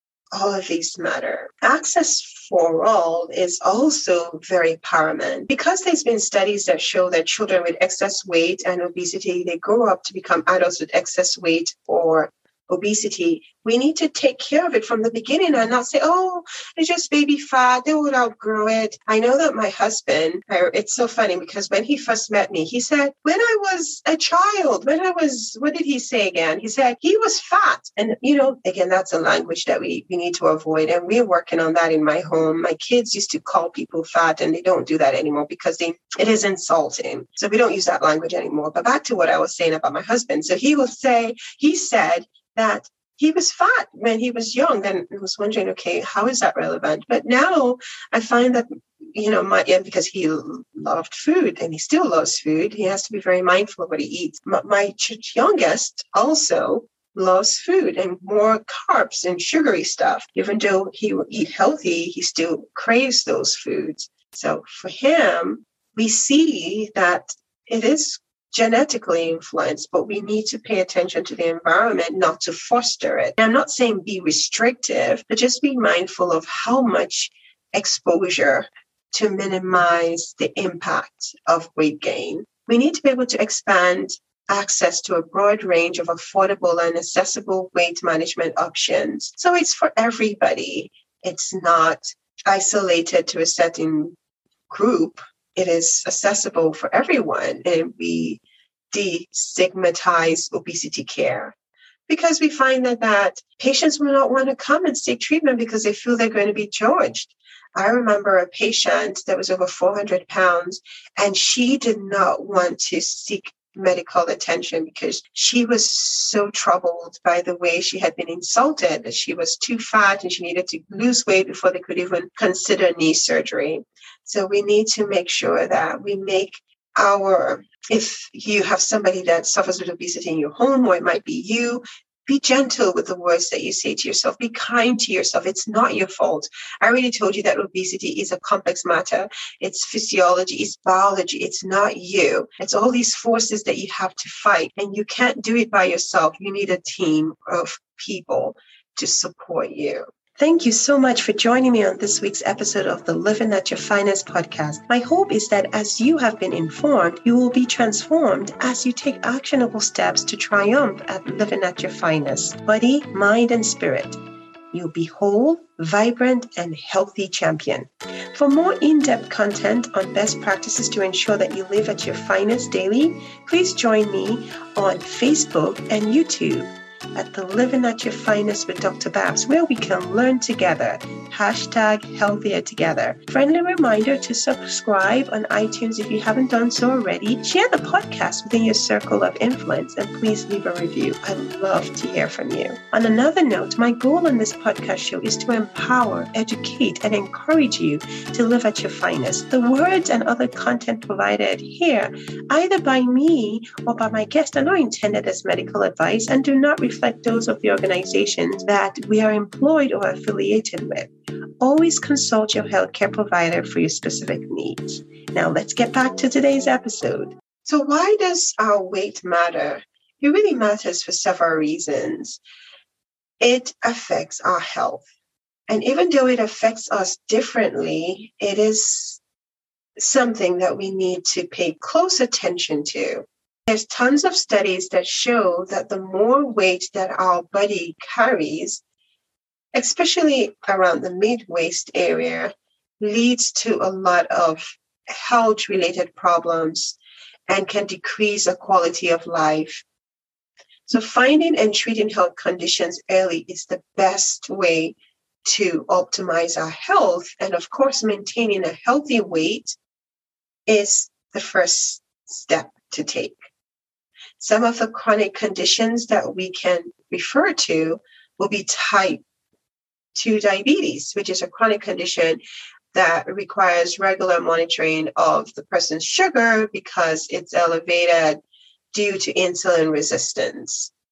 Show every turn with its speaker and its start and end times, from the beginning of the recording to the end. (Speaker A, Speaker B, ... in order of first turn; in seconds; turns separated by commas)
Speaker A: 0.3-94.2, Speaker A: 94.7-101.5, Speaker A: 102.1-164.2, Speaker A: 164.7-211.1, Speaker A: 211.6-222.4, Speaker A: 223.4-225.0, Speaker A: 225.7-229.2, Speaker A: 230.0-238.8, Speaker A: 239.7-249.8, Speaker A: 250.9-259.8, Speaker A: 260.7-263.4, Speaker A: 264.4-269.2, Speaker A: 270.1-272.4, Speaker A: 272.9-278.4, Speaker A: 278.9-280.9